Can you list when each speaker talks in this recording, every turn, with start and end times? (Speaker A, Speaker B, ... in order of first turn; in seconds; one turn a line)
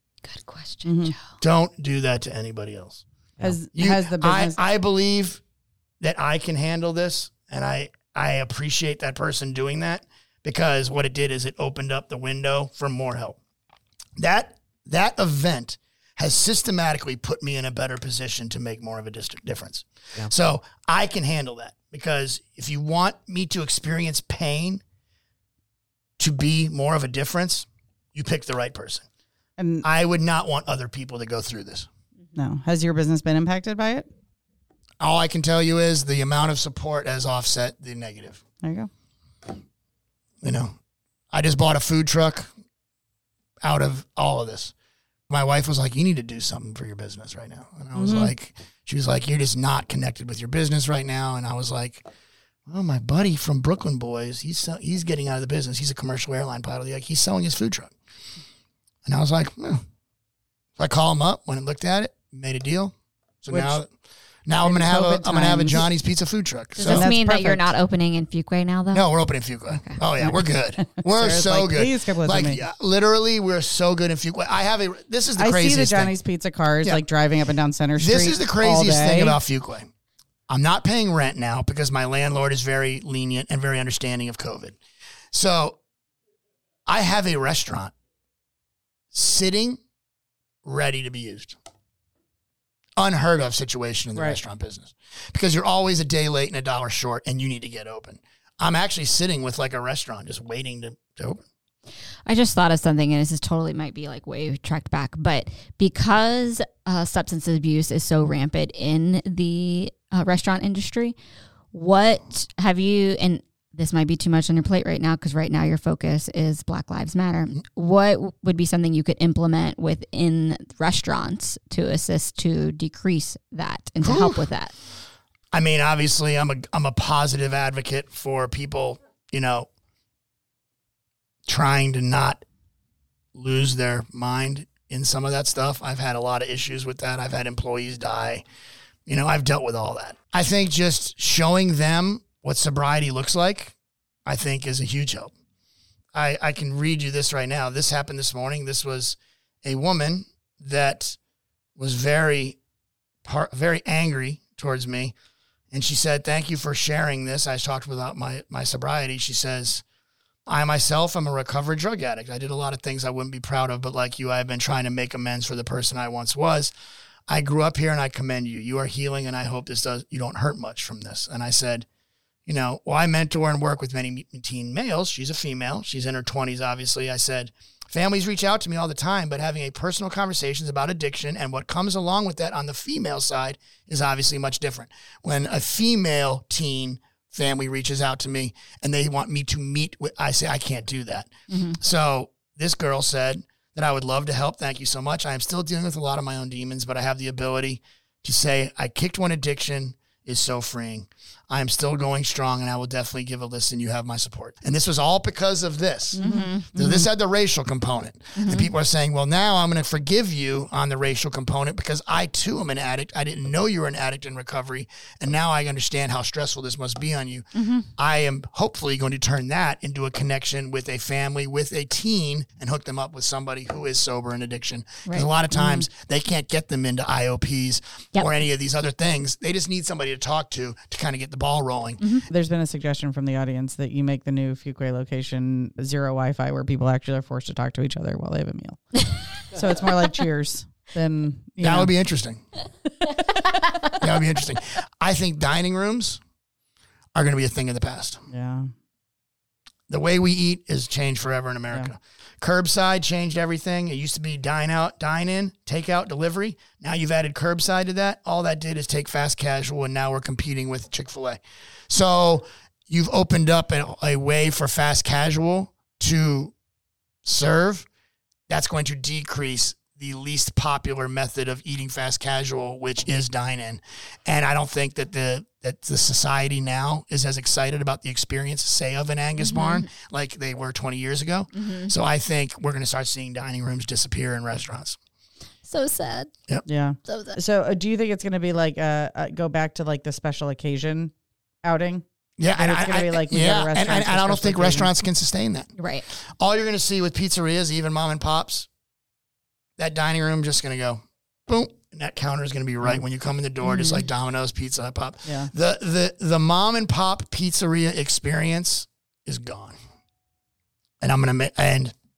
Speaker A: 0.2-1.2
Speaker B: 0.8-1.1
Speaker C: 1.4-3.0
Speaker B: 3.4-4.6
Speaker C: 3.7-5.4
Speaker C: 6.0-13.4
Speaker C: 14.2-24.8
Speaker C: 26.2-29.0
Speaker B: 29.6-29.8
Speaker C: 29.8-31.9
Speaker B: 32.4-34.1
Speaker C: 35.0-38.4
Speaker B: 38.6-38.9
Speaker C: 40.4-40.7
Speaker C: 41.3-42.5
Speaker C: 43.6-44.7
Speaker C: 45.3-52.0
Speaker B: 47.9-48.3
Speaker C: 52.7-57.9
Speaker C: 59.0-59.8
Speaker C: 60.8-63.9
Speaker B: 63.5-63.8
Speaker C: 64.5-67.1
Speaker B: 64.6-65.9
Speaker A: 66.8-69.1
Speaker B: 66.8-67.7
Speaker C: 68.9-76.1
Speaker B: 70.2-72.6
Speaker B: 75.4-79.4
Speaker C: 78.0-79.9
Speaker C: 80.5-84.8
Speaker C: 85.3-85.8
Speaker C: 86.8-87.9
Speaker C: 89.1-89.8
Speaker C: 90.6-91.6
Speaker C: 93.0-101.4
Speaker A: 102.2-111.2
Speaker A: 111.7-124.7
Speaker C: 124.0-124.4
Speaker C: 125.5-129.7
Speaker C: 131.5-132.4
Speaker C: 133.3-138.4
Speaker C: 139.1-143.7
Speaker C: 144.2-145.3
Speaker C: 146.1-151.2
Speaker C: 151.8-152.6
Speaker C: 153.2-155.1
Speaker C: 155.7-159.8
Speaker C: 160.5-166.7
Speaker C: 167.3-171.8
Speaker C: 172.4-232.0
Speaker A: 191.5-191.8
Speaker B: 206.1-207.1
Speaker A: 206.2-206.6
Speaker A: 208.4-208.7
Speaker A: 217.5-217.9
Speaker B: 225.5-225.9
Speaker B: 232.3-238.9
Speaker B: 239.5-241.9
Speaker C: 241.6-242.4
Speaker C: 244.0-246.2
Speaker C: 247.1-248.2
Speaker B: 248.3-248.7
Speaker C: 249.9-266.5
Speaker C: 267.2-267.9
Speaker C: 268.5-285.0
Speaker A: 279.4-279.9
Speaker A: 281.5-281.9
Speaker A: 285.6-286.3
Speaker B: 286.6-291.1
Speaker A: 287.1-287.4
Speaker B: 291.6-292.0
Speaker C: 292.4-295.7
Speaker B: 292.6-294.9
Speaker A: 295.8-296.1
Speaker C: 296.2-298.7
Speaker C: 299.8-309.7
Speaker A: 303.6-304.0
Speaker B: 305.2-305.5
Speaker C: 311.0-311.9